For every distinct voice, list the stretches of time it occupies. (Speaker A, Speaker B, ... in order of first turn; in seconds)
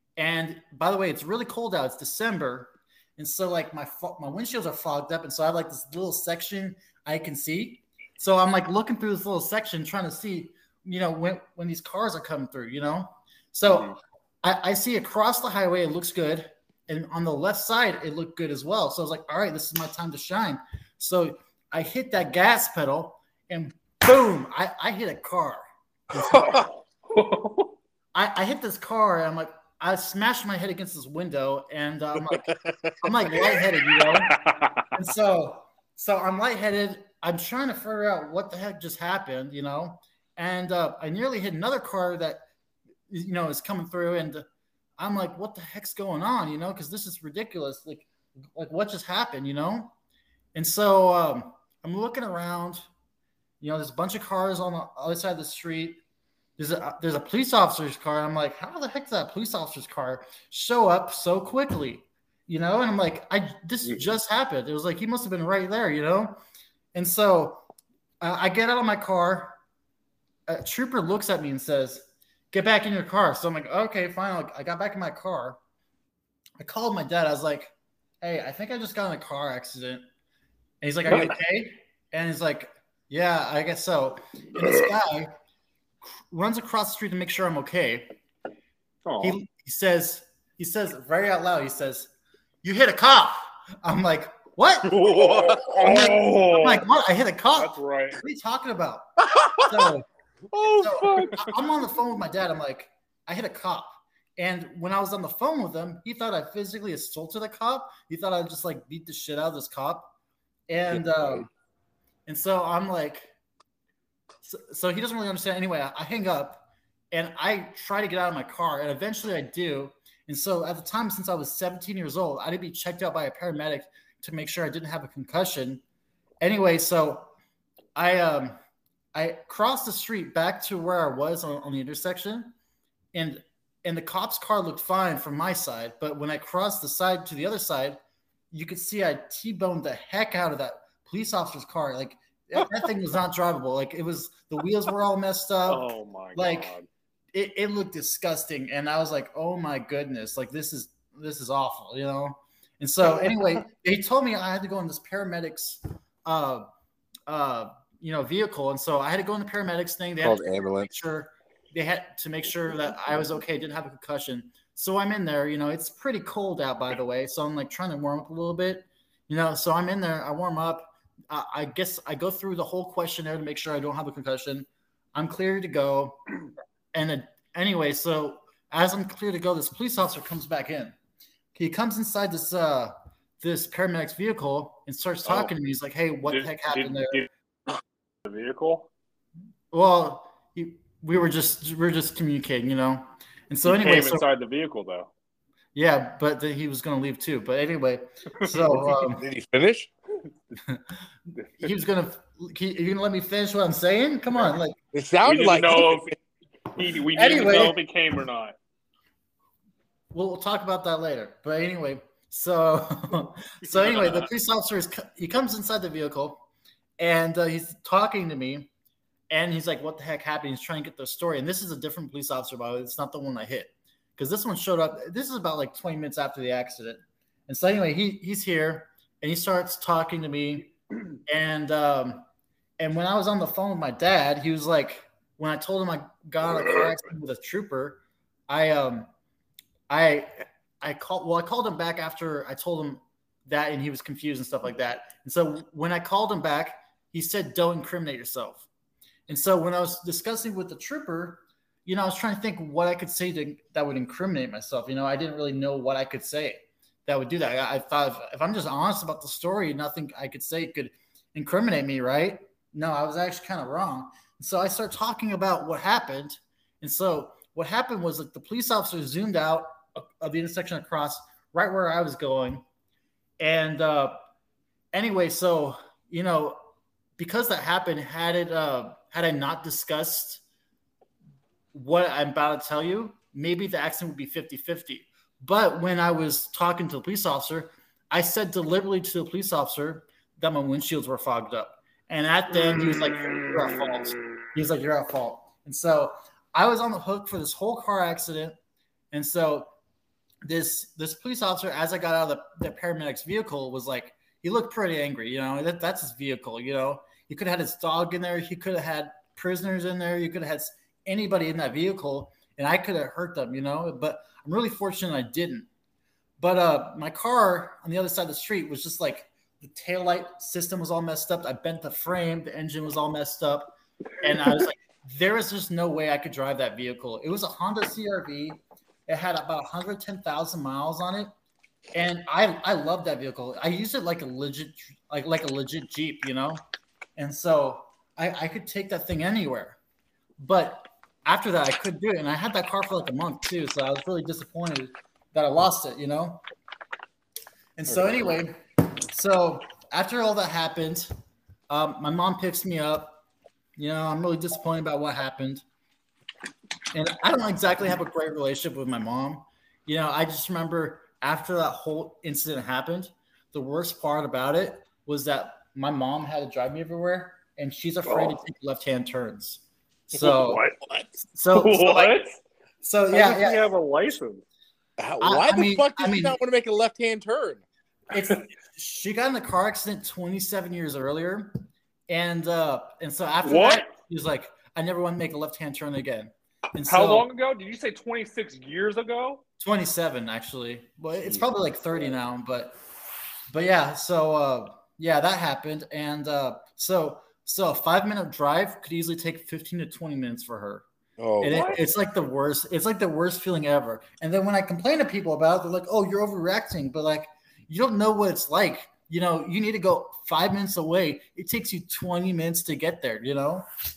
Speaker A: 0.2-26.6, 28.1-34.4, 34.9-42.5, 43.1-44.5, 45.0-49.9, 50.5-52.9, 53.6-56.0, 56.6-66.4, 66.9-67.6, 68.2-69.6, 70.5-75.6, 76.6-80.1, 80.8-85.3, 86.0-88.1, 89.2-92.1, 92.6-100.1, 100.7-110.2, 110.7-111.5, 112.3-113.3, 114.4-125.8, 126.4-127.3, 128.0-128.6, 129.2-132.5, 133.1-138.0, 138.5-146.8, 147.3-156.7, 157.3-176.2, 176.9-181.0, 181.6-187.3, 189.7-194.3, 195.8-199.3, 201.5-204.8, 207.1-207.8, 210.1-216.4, 217.0-218.7, 219.3-230.7, 231.3-232.3, 232.8-239.1, 239.9-248.7, 249.3-272.6, 273.4-274.2, 274.9-276.6, 277.2-280.4, 281.7-298.6, 299.1-299.7, 300.4-315.7, 316.4-331.3, 331.9-336.6, 337.2-339.8, 340.4-346.4, 347.8-351.1, 351.7-353.2, 353.8-355.6, 356.9-370.6, 371.3-372.2, 372.8-373.7, 375.2-376.4, 378.1-387.3, 389.6-392.8, 393.5-400.9, 401.4-413.7
Speaker B: 13.7-13.9, 26.3-27.8, 34.0-34.9, 89.0-89.4, 94.9-96.9, 97.5-98.2, 145.7-146.9, 185.3-185.5, 186.2-187.3, 188.2-188.9, 193.7-195.1, 198.4-198.7, 205.2-206.2, 206.7-208.6, 213.6-214.3, 292.5-294.4, 368.1-368.4, 370.1-371.0, 371.5-372.4, 373.1-374.4, 383.4-383.9, 386.9-389.4, 401.5-401.8
Speaker C: 26.1-26.7, 32.2-33.6, 95.2-96.2, 99.2-99.9, 100.5-101.4, 110.9-111.5, 160.2-160.9, 198.9-199.9, 204.9-206.1, 375.0-377.6, 401.2-401.8